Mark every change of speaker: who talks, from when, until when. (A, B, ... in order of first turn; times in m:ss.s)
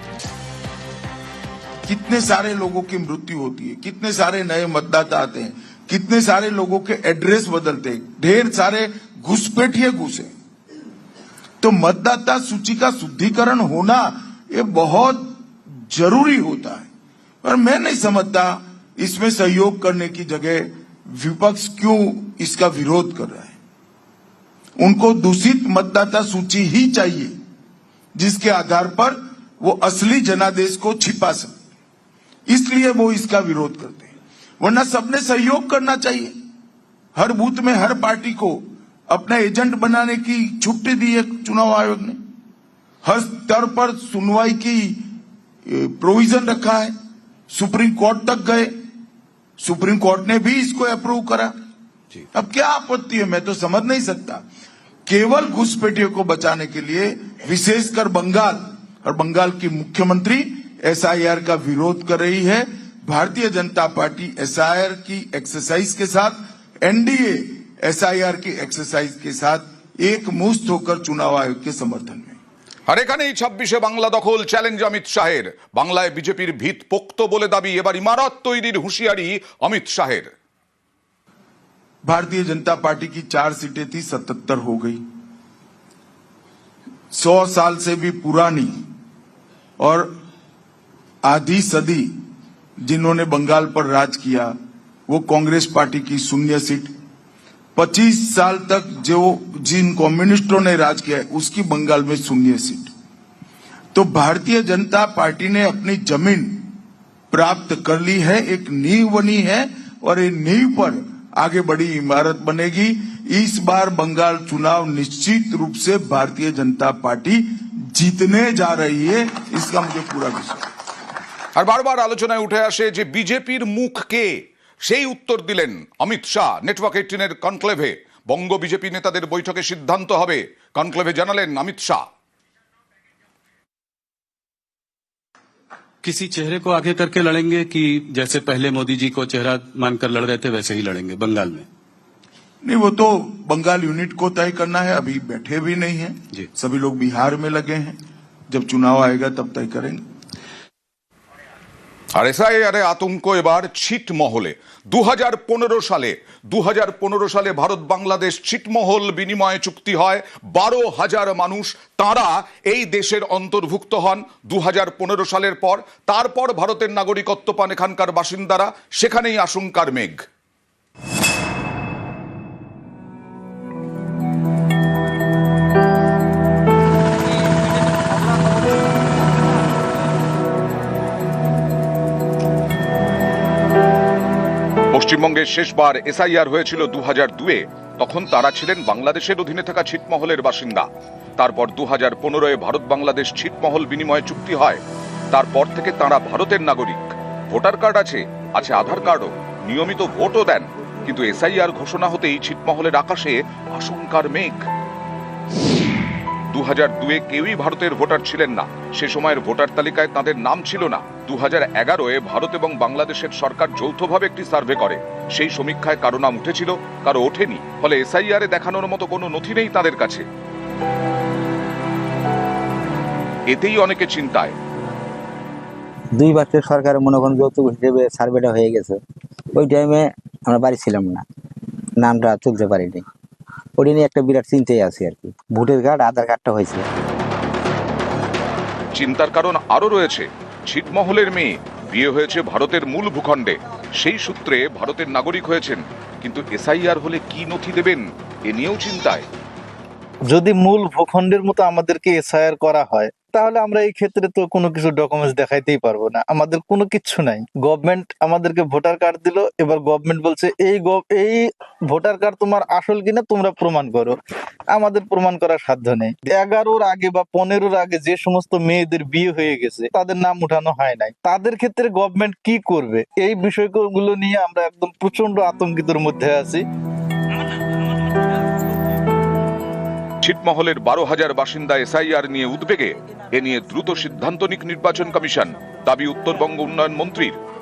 0:01.9-0:10.3 A
0:11.6-0:15.4 A
0:15.9-0:16.9 A
0:17.4-0:23.5 A
0:24.8-0:27.3 A
0:28.2-0:31.5 A
0:32.5-0:36.3 A
0:37.1-0:42.2 A
0:43.0-0:45.0 A
0:45.7-0:46.9 A
0:47.5-0:48.7 A
0:49.6-0:51.5 A
0:52.3-0:54.4 A
0:55.1-1:12.4 A
1:12.9-1:20.3 B
1:22.0-1:25.0 A
1:27.1-1:28.7 A
1:29.8-1:30.1 A
1:31.2-1:32.1 A
1:32.8-1:34.5 A
1:35.1-1:36.9 A
1:37.8-1:42.9 A
1:43.9-1:46.7 A
1:47.3-2:00.7 A
2:01.6-2:04.3 B
2:04.8-2:12.0 B
2:16.0-2:21.6 C
2:22.6-2:28.0 A
2:28.5-2:30.0 A
2:32.2-2:50.2 B
3:04.9-3:10.9 B
3:11.4-3:14.8 B
3:15.3-3:24.6 B
3:26.5-3:40.2 B
3:43.5-3:44.6 B
3:46.2-3:48.9 D
3:49.6-3:51.2 D
3:52.0-3:53.0 D
3:53.8-3:56.8 D
3:58.9-4:09.2 B
4:10.3-4:24.2 E
4:24.7-4:36.6 E
4:40.2-4:47.4 B